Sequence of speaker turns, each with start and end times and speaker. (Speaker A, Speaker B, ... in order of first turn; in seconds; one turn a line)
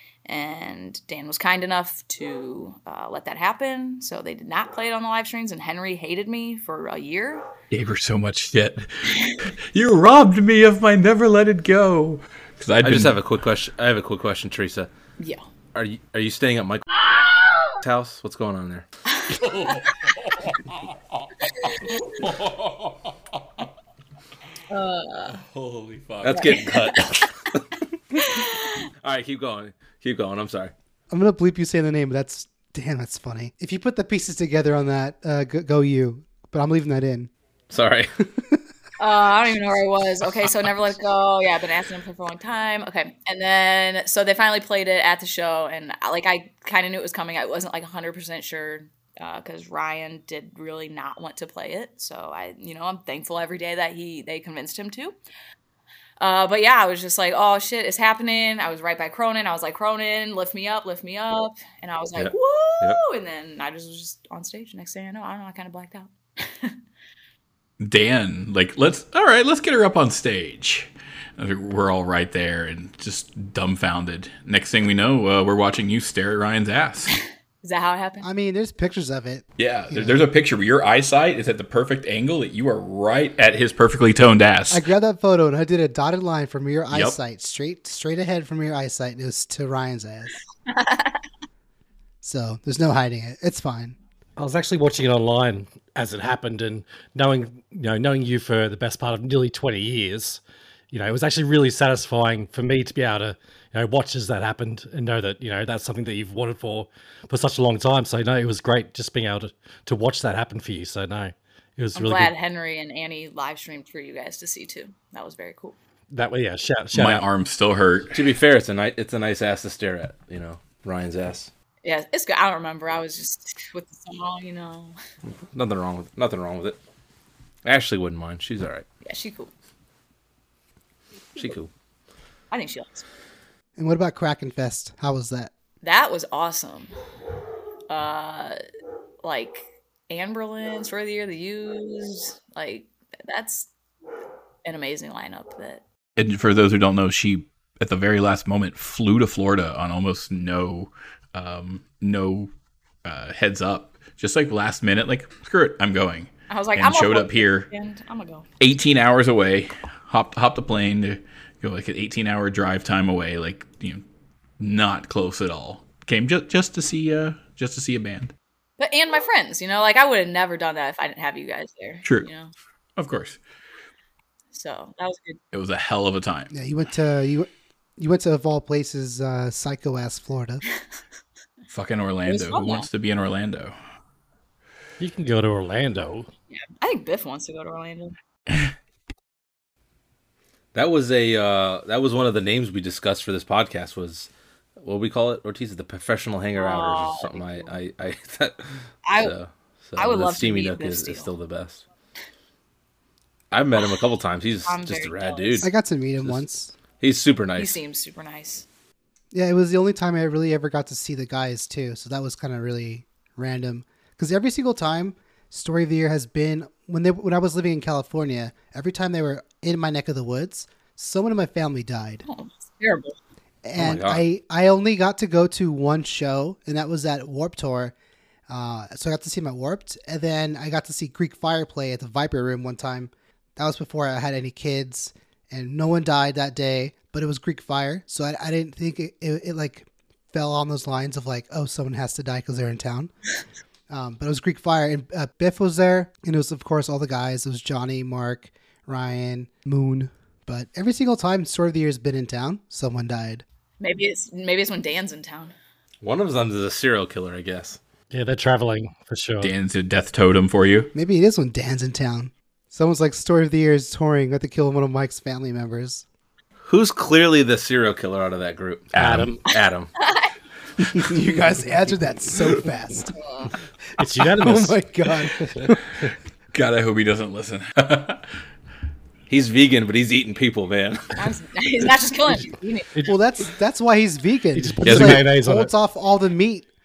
Speaker A: 0.2-7.5
Speaker B: 7.7-13.2
Speaker C: 12.8-14.9
Speaker A: 15.2-15.4
Speaker C: 15.7-16.9
Speaker C: 17.8-18.9
Speaker A: 19.1-19.4
Speaker B: 19.3-23.7
Speaker A: 21.6-22.1
Speaker A: 24.7-25.4
Speaker B: 25.3-26.7
Speaker C: 26.2-27.6
Speaker A: 26.3-27.3
Speaker A: 28.2-28.8
Speaker C: 29.0-30.7
Speaker D: 31.1-37.3
Speaker C: 37.7-38.1
Speaker A: 39.0-55.2
Speaker A: 56.2-66.8
Speaker C: 62.2-63.0
Speaker B: 67.8-77.1
Speaker A: 77.6-78.3
Speaker D: 78.2-80.3
Speaker B: 79.6-84.8
Speaker D: 84.7-90.4
Speaker B: 86.9-87.2
Speaker A: 90.7-91.2
Speaker D: 92.2-94.0
Speaker E: 94.4-112.3
Speaker A: 112.0-115.8
Speaker E: 116.1-117.2
Speaker B: 116.9-118.3
Speaker C: 118.1-121.5
Speaker A: 121.8-125.0
Speaker C: 125.5-126.8
Speaker C: 127.7-128.9
Speaker A: 129.1-129.5
Speaker C: 131.4-131.7
Speaker A: 132.5-133.1
Speaker D: 133.8-135.5
Speaker A: 135.8-136.9
Speaker A: 137.9-138.6
Speaker A: 139.2-143.7
Speaker A: 144.7-145.8
Speaker B: 146.2-152.5
Speaker B: 153.1-157.7
Speaker A: 156.5-158.5
Speaker B: 158.6-164.0
Speaker B: 164.6-168.3
Speaker A: 168.8-172.5
Speaker B: 173.0-173.4
Speaker A: 174.5-175.4
Speaker B: 175.5-176.5
Speaker D: 176.5-180.6
Speaker B: 181.7-183.8
Speaker A: 182.3-182.9
Speaker E: 185.0-186.3
Speaker A: 186.5-188.2
Speaker C: 190.7-194.3
Speaker C: 194.8-198.7
Speaker A: 196.6-197.7
Speaker A: 199.1-199.3
Speaker C: 199.2-201.8
Speaker A: 200.0-201.3
Speaker C: 203.5-205.7
Speaker A: 204.7-205.7
Speaker D: 205.6-206.7
Speaker C: 207.0-207.8
Speaker A: 207.6-208.7
Speaker D: 209.3-222.2
Speaker A: 222.3-223.2
Speaker D: 223.6-227.9
Speaker C: 223.8-224.2
Speaker D: 228.5-243.1
Speaker D: 243.9-253.4
Speaker A: 253.8-255.5
Speaker C: 256.0-257.8
Speaker E: 258.1-259.5
Speaker B: 259.4-260.9
Speaker D: 260.9-266.1
Speaker C: 266.7-268.9
Speaker B: 268.9-269.3
Speaker E: 269.0-269.4
Speaker C: 269.5-269.9
Speaker A: 270.0-270.3
Speaker D: 270.9-273.1
Speaker A: 273.2-273.5
Speaker E: 274.0-274.8
Speaker D: 274.2-275.8
Speaker E: 275.4-275.7
Speaker B: 276.5-278.3
Speaker C: 279.3-281.2
Speaker A: 281.2-282.9
Speaker D: 283.1-286.7
Speaker E: 284.6-285.7
Speaker B: 284.9-285.2